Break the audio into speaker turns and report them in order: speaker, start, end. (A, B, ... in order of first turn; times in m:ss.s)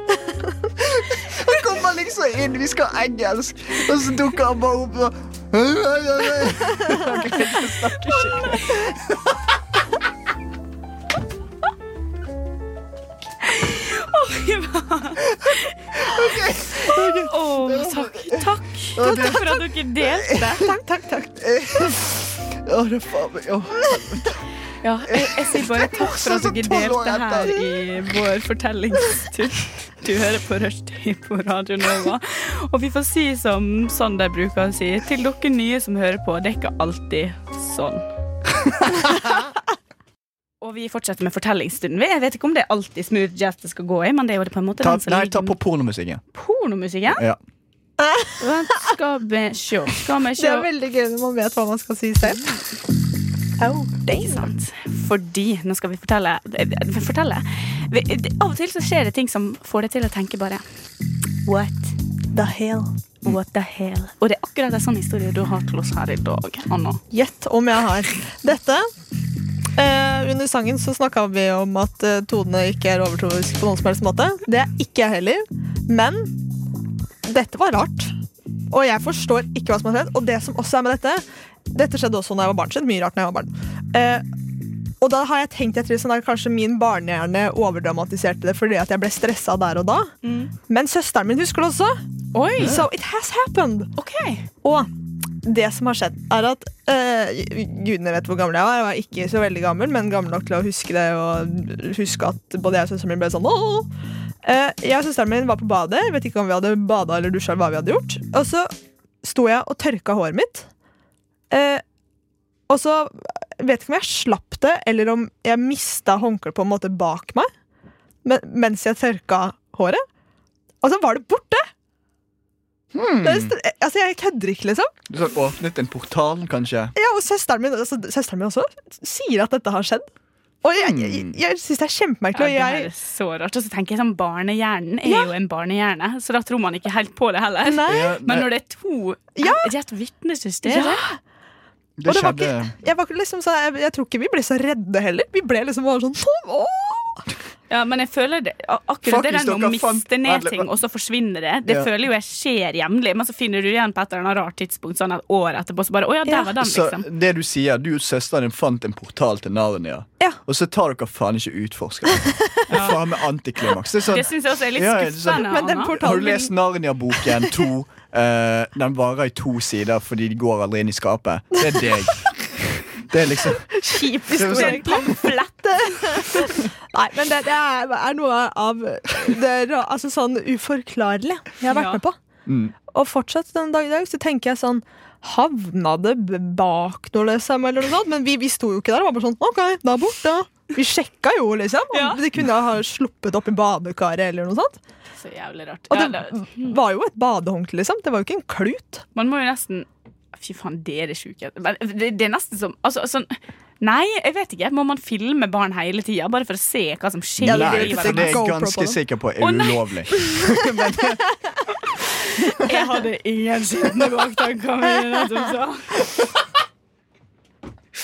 0:00.8-0:09.4 A
0:08.1-0:08.6 B
0:13.4-0:15.7 B
0:15.3-0:20.5 A
0:17.2-0:20.7 B
0:20.6-0:21.4 C
0:21.4-0:24.4 A
0:24.8-0:38.0 B
0:25.1-0:27.6 A
0:40.6-0:45.6 B
0:44.8-0:46.2 A
0:46.3-0:47.2 B
0:47.1-0:47.4 A
0:48.0-0:48.3 C
0:48.4-0:50.7 B
0:50.4-0:52.6 C
0:52.3-0:52.6 B
0:53.6-0:54.5 C
0:54.1-1:00.6 B
1:01.4-1:01.9 B
1:02.3-1:02.9 C
1:03.2-1:07.0 B
1:07.1-1:08.9 C
1:09.8-1:16.4 C
1:17.2-1:18.1 C
1:18.7-1:24.2 C
1:25.0-1:30.1 C
1:30.2-1:30.5 B
1:30.7-1:32.0 C
1:32.3-1:32.8 B
1:32.6-1:33.9 C
1:34.0-1:34.4 B
1:34.6-1:34.9 C
1:35.4-1:43.9 C
1:44.4-1:48.7 C
1:49.2-1:50.7 C
1:51.5-1:51.8 C
1:52.7-1:57.5 C
1:58.2-2:00.0 C
2:00.8-2:01.6 C
2:02.9-2:03.5 A
2:03.2-2:04.9 C
2:05.1-2:06.9 A
2:07.0-2:10.1 C
2:10.6-2:12.9 C
2:10.8-2:11.4 A
2:12.3-2:21.0 B
2:15.0-2:15.3 C
2:17.6-2:18.1 C
2:17.8-2:18.5 A
2:19.4-2:19.7 C
2:20.6-2:21.2 C
2:22.0-2:22.7 A
2:22.0-2:27.2 C
2:27.7-2:37.0 B
2:29.0-2:30.7 A
2:31.6-2:31.9 A
2:36.6-2:53.8 A
2:42.7-2:43.0 B
2:44.1-2:46.0 B
2:45.4-2:46.5 C
2:53.7-3:02.2 C
2:54.3-2:55.1 A
2:54.3-2:56.4 B
3:01.7-3:02.0 B
3:02.4-3:02.7 A
3:02.9-3:14.8 C
3:11.9-3:12.2 B
3:15.2-3:16.8 B
3:15.9-3:19.0 C
3:19.1-3:28.4 B
3:27.4-3:31.2 A
3:27.4-3:29.0 C
3:29.4-3:29.9 B
3:32.4-3:36.0 B